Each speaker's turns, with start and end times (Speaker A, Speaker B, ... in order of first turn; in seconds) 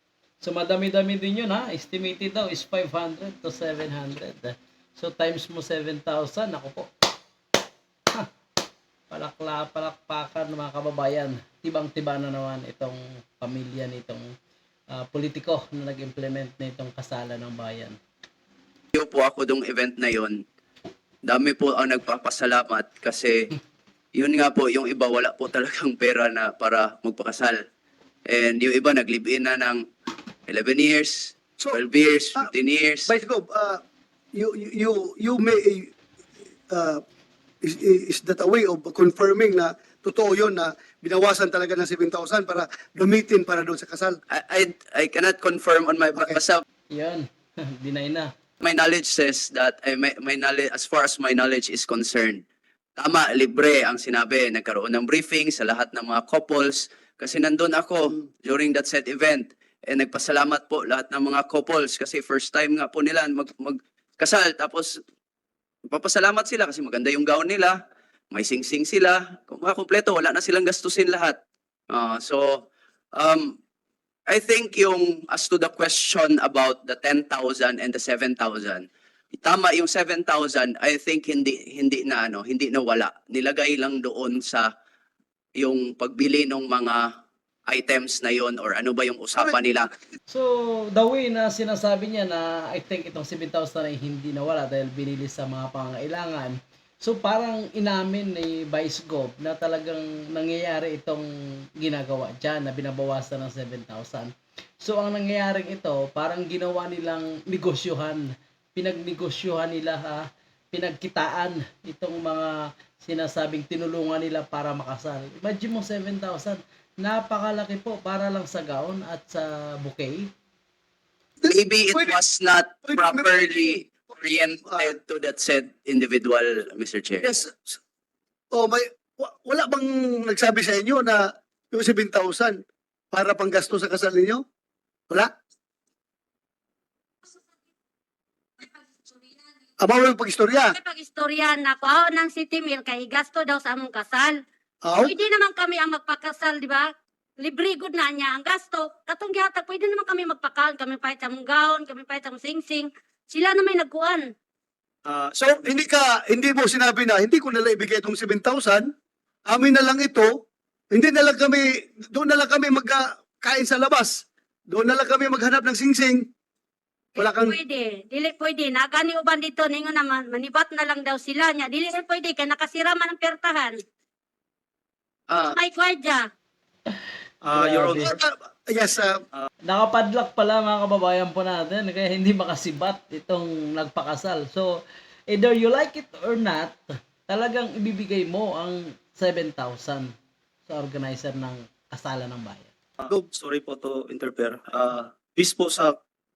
Speaker A: 0.4-6.9, 9.1-14.3, 14.9-18.0, 46.9-48.3, 90.3-101.2, 101.8-108.2, 108.8-120.3, 177.6-178.1, 179.7-190.1, 190.7-192.7
Speaker B: 18.9-20.4, 21.2-23.5, 24.1-27.6, 28.3-29.8, 30.5-33.1, 44.3-46.6, 48.6-52.4, 53.0-65.0, 65.9-67.8, 68.3-71.4, 71.9-73.5, 74.3-78.8, 79.4-84.7, 85.6-87.0, 87.7-89.9, 121.5-127.3, 175.3-175.6
Speaker C: 33.1-33.8, 34.4-35.9, 36.7-37.0, 37.6-44.2, 121.4-122.2, 122.8-123.5, 124.7-124.9, 127.2-127.8, 128.5-132.6, 133.1-134.4, 139.8-140.7, 144.8-145.1, 155.4-158.9, 159.5-160.4, 160.9-166.2, 167.2-167.6, 177.9-179.2
Speaker D: 140.7-144.4, 145.0-154.3, 167.2-173.8, 175.4-176.2
Speaker E: 155.1-155.7, 177.4-178.2, 193.0-195.9